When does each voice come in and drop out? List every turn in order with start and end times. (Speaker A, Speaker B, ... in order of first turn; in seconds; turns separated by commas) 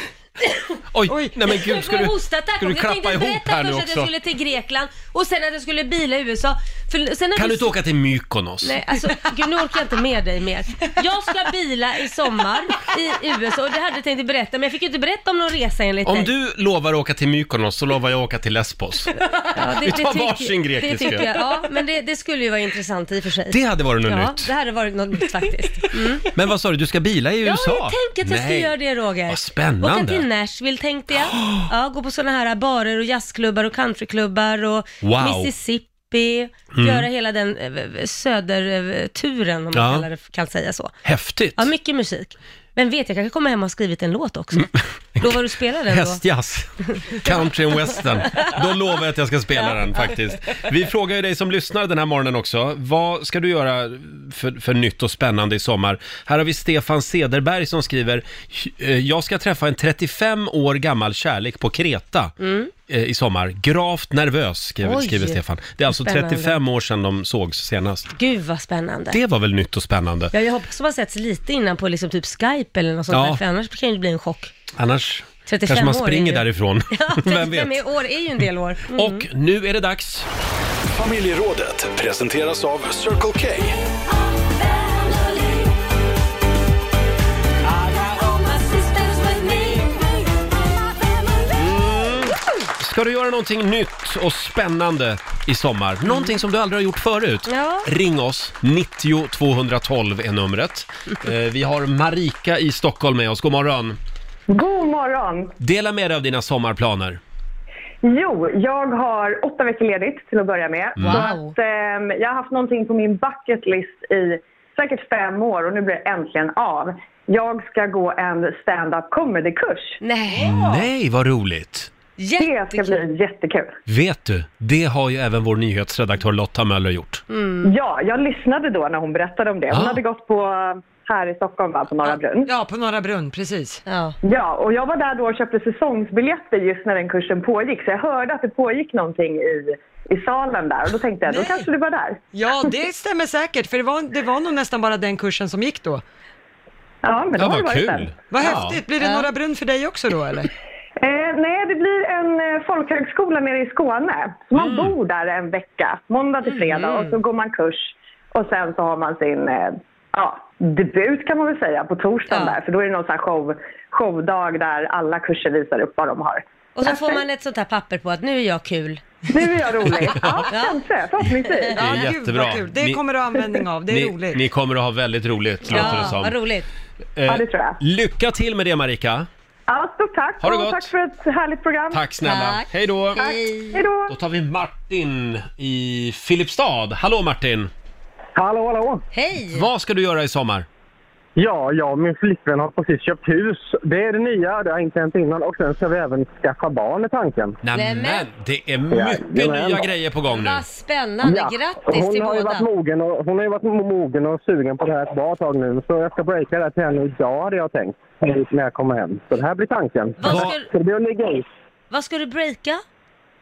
Speaker A: 0.9-4.1, Speaker B: 1.1-1.3, Speaker C: 1.4-7.7, Speaker A: 7.3-8.8, Speaker C: 8.6-16.3, Speaker A: 16.1-21.3, Speaker C: 19.3-26.3, Speaker A: 23.5-24.5, Speaker A: 26.2-28.7, Speaker C: 27.4-40.9, Speaker A: 29.3-30.2, Speaker A: 31.3-31.6, Speaker A: 35.0-35.5, Speaker A: 36.7-37.0, Speaker A: 39.7-40.0, Speaker A: 41.0-41.7, Speaker C: 41.6-46.2, Speaker A: 44.6-62.4, Speaker C: 47.0-47.3, Speaker C: 48.2-48.6, Speaker C: 49.6-50.2, Speaker C: 62.4-62.7, Speaker A: 62.9-68.1, Speaker C: 64.8-66.6, Speaker C: 68.1-69.2, Speaker A: 69.1-70.3, Speaker C: 70.3-74.5, Speaker A: 73.1-73.4, Speaker A: 74.8-77.8, Speaker C: 75.5-79.3, Speaker A: 78.9-80.3, Speaker D: 80.9-83.8, Speaker C: 84.5-85.7, Speaker C: 87.7-90.4, Speaker A: 91.5-104.0, Speaker C: 96.1-96.3, Speaker C: 97.5-97.9, Speaker E: 104.5-105.5, Speaker A: 105.6-107.2, Speaker E: 108.0-120.8, Speaker A: 111.0-111.2, Speaker C: 111.0-111.5, Speaker C: 120.0-120.6, Speaker A: 120.4-121.9, Speaker C: 122.2-123.0, Speaker E: 122.4-123.8, Speaker A: 123.8-127.2, Speaker C: 127.3-127.7, Speaker E: 127.6-132.5, Speaker A: 129.7-130.0, Speaker B: 132.4-133.8, Speaker C: 133.9-134.2, Speaker E: 134.2-142.2, Speaker B: 141.2-141.7, Speaker B: 142.3-146.0, Speaker E: 147.0-148.1, Speaker A: 147.4-148.8, Speaker B: 148.3-150.5, Speaker C: 149.0-149.3, Speaker E: 151.0-167.2, Speaker A: 154.5-154.9, Speaker C: 156.4-157.2, Speaker C: 162.3-162.6, Speaker C: 166.7-169.0, Speaker E: 169.3-171.8, Speaker A: 170.0-170.5, Speaker C: 170.5-170.8, Speaker C: 171.4-171.7, Speaker A: 171.7-173.0, Speaker B: 171.7-174.4, Speaker A: 173.9-176.3, Speaker C: 175.7-176.7, Speaker A: 177.2-179.3, Speaker E: 177.2-177.8, Speaker E: 179.7-182.0, Speaker A: 180.4-180.9, Speaker A: 181.9-183.2, Speaker C: 182.2-183.8, Speaker E: 183.2-184.1, Speaker A: 184.1-187.7, Speaker F: 188.3-189.0, Speaker C: 189.1-189.7, Speaker A: 189.5-190.7, Speaker F: 191.4-197.6, Speaker A: 197.6-200.6, Speaker C: 197.7-198.3, Speaker F: 198.9-199.9, Speaker C: 200.3-202.7, Speaker F: 201.2-211.4, Speaker C: 210.2-210.7, Speaker A: 210.2-210.5, Speaker C: 211.9-212.8